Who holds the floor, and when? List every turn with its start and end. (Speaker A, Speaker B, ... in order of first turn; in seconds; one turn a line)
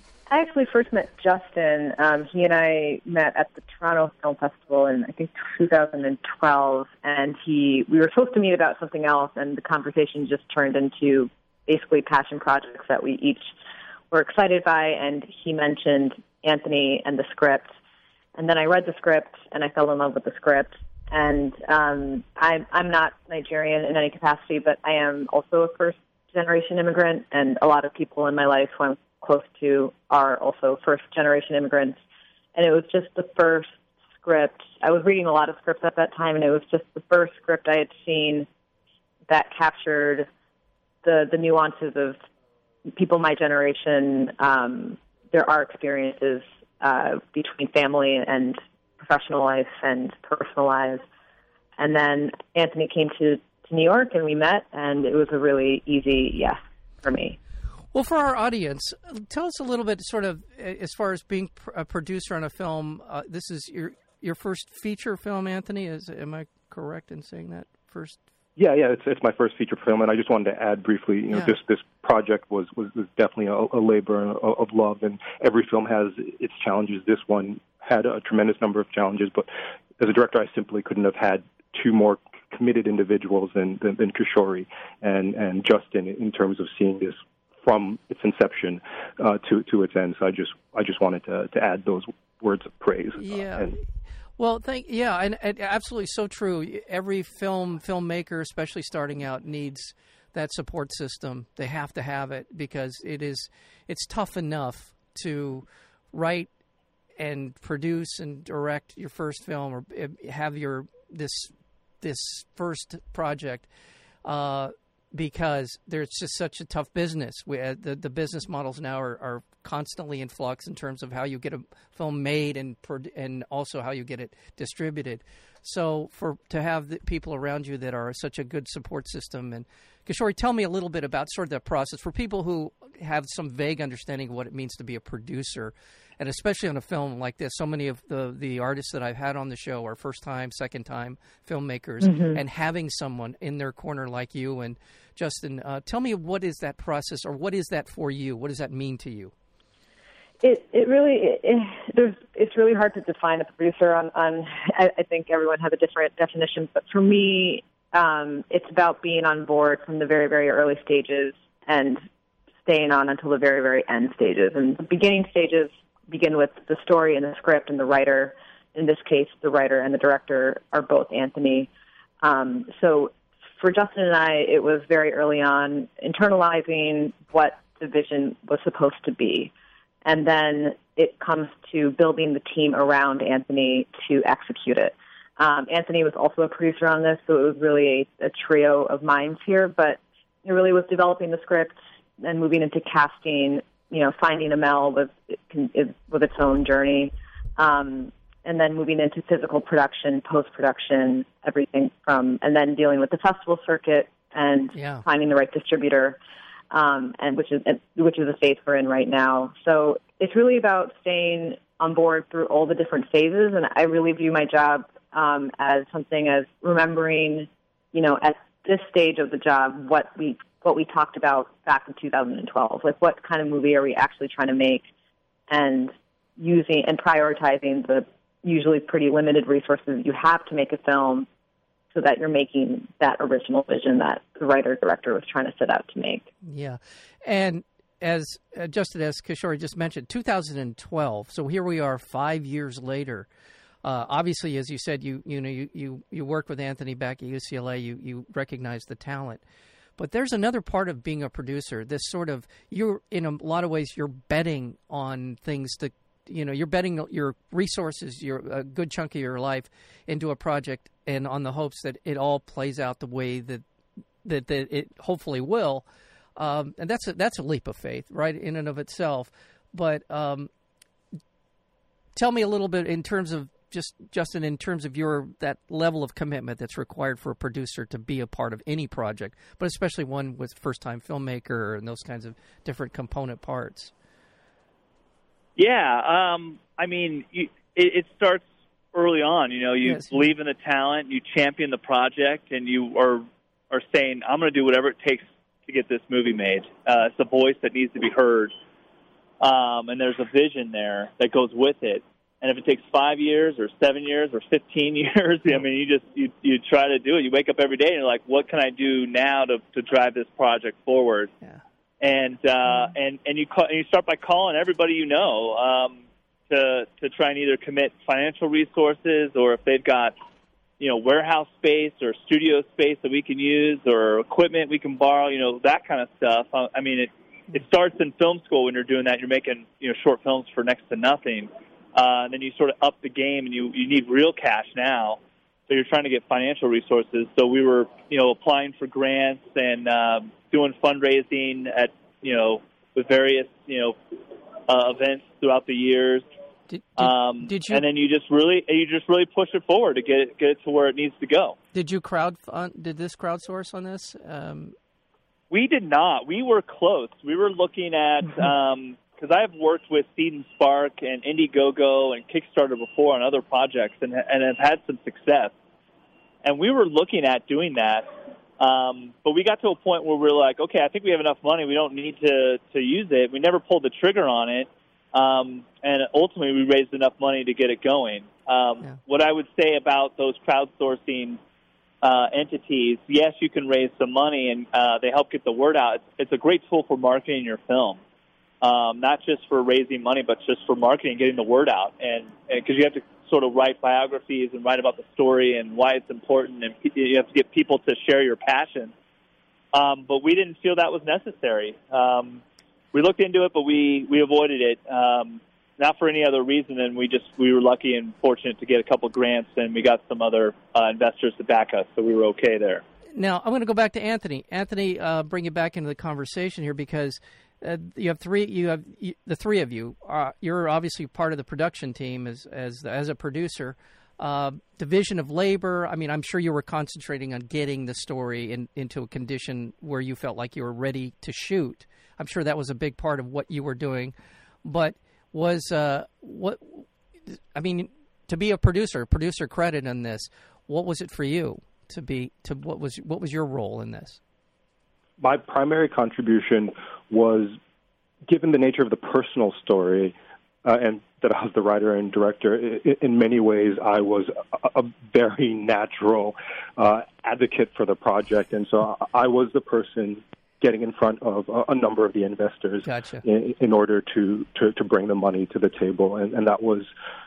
Speaker A: 0.3-13.5
Speaker A: 14.1-17.7
Speaker A: 18.4-32.0
Speaker A: 32.5-33.7
Speaker A: 34.2-38.5
Speaker A: 39.3-40.3
Speaker A: 41.0-42.2
Speaker A: 42.9-51.0
Speaker A: 51.8-57.4
Speaker B: 57.9-68.2
Speaker C: 68.5-93.7
Speaker B: 93.2-93.8
Speaker B: 94.4-106.5
Speaker B: 107.2-113.7
Speaker B: 114.2-149.3
Speaker A: 142.0-142.4
Speaker A: 150.4-162.0
Speaker A: 162.6-171.7
Speaker A: 172.2-179.5
Speaker A: 180.0-206.2
Speaker B: 204.7-205.0
Speaker A: 206.7-224.8
Speaker A: 225.5-231.3
Speaker A: 231.9-236.2
Speaker B: 236.4-243.3
Speaker B: 243.8-249.4
Speaker B: 250.0-263.6
Speaker B: 264.2-265.8
Speaker B: 266.4-270.5
Speaker B: 272.1-283.9
Speaker D: 285.6-298.5
Speaker B: 289.8-290.3
Speaker D: 299.4-311.3
Speaker D: 312.0-320.1
Speaker D: 320.8-343.9
Speaker D: 344.7-346.2
Speaker B: 346.7-347.8
Speaker D: 347.0-351.6
Speaker B: 351.7-354.7
Speaker D: 355.5-365.5
Speaker D: 366.4-368.1
Speaker D: 368.6-381.4
Speaker D: 382.0-388.0
Speaker D: 388.6-398.9
Speaker D: 399.7-402.4
Speaker D: 402.9-412.8
Speaker B: 413.1-434.1
Speaker B: 434.6-444.2
Speaker C: 445.2-447.6
Speaker C: 448.3-466.9
Speaker B: 462.9-463.2